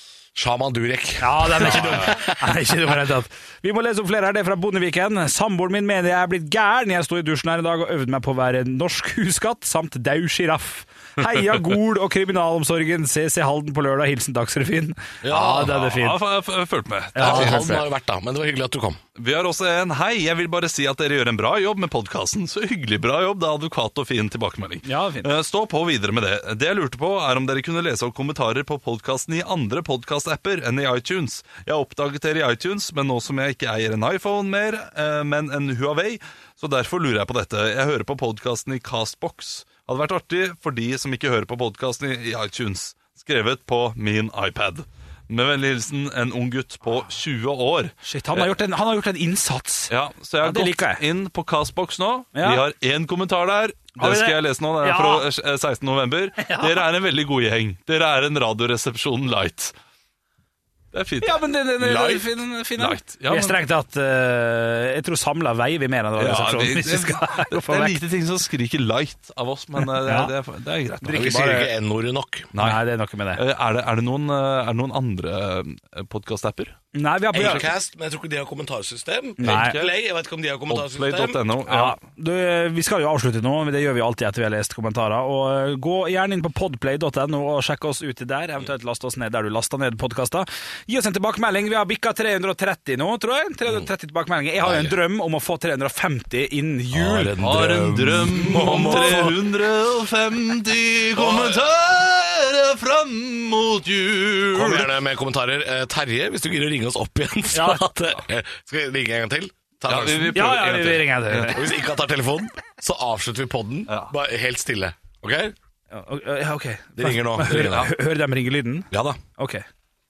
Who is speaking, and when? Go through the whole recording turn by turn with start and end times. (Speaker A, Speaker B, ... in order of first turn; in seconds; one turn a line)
Speaker A: 0.3-2.2
Speaker B: 1.2-16.2
Speaker A: 15.2-15.8
Speaker C: 15.6-17.8
Speaker B: 17.1-17.8
Speaker A: 17.2-19.0
Speaker C: 19.1-48.5
Speaker B: 24.8-25.3
Speaker B: 48.0-51.0
Speaker C: 49.9-59.7
Speaker B: 52.3-52.6
Speaker B: 54.0-55.3
Speaker B: 56.4-56.9
Speaker C: 60.9-63.6
Speaker B: 61.2-68.0
Speaker C: 66.2-71.6
Speaker B: 69.8-70.3
Speaker B: 71.0-71.7
Speaker A: 71.1-72.5
Speaker C: 72.5-76.8
Speaker B: 72.5-73.4
Speaker B: 76.9-77.7
Speaker A: 77.3-81.4
Speaker C: 77.4-77.6
Speaker B: 79.4-79.8
Speaker C: 79.4-79.9
Speaker C: 80.7-82.0
Speaker B: 81.7-97.3
Speaker A: 94.6-95.0
Speaker A: 96.9-99.4
Speaker C: 97.4-104.9
Speaker A: 101.1-101.6
Speaker A: 104.5-110.4
Speaker B: 107.5-107.9
Speaker C: 109.9-111.5
Speaker B: 110.3-111.7
Speaker A: 111.4-115.5
Speaker C: 113.9-114.1
Speaker B: 115.9-119.6
Speaker A: 117.0-118.0
Speaker A: 118.9-119.2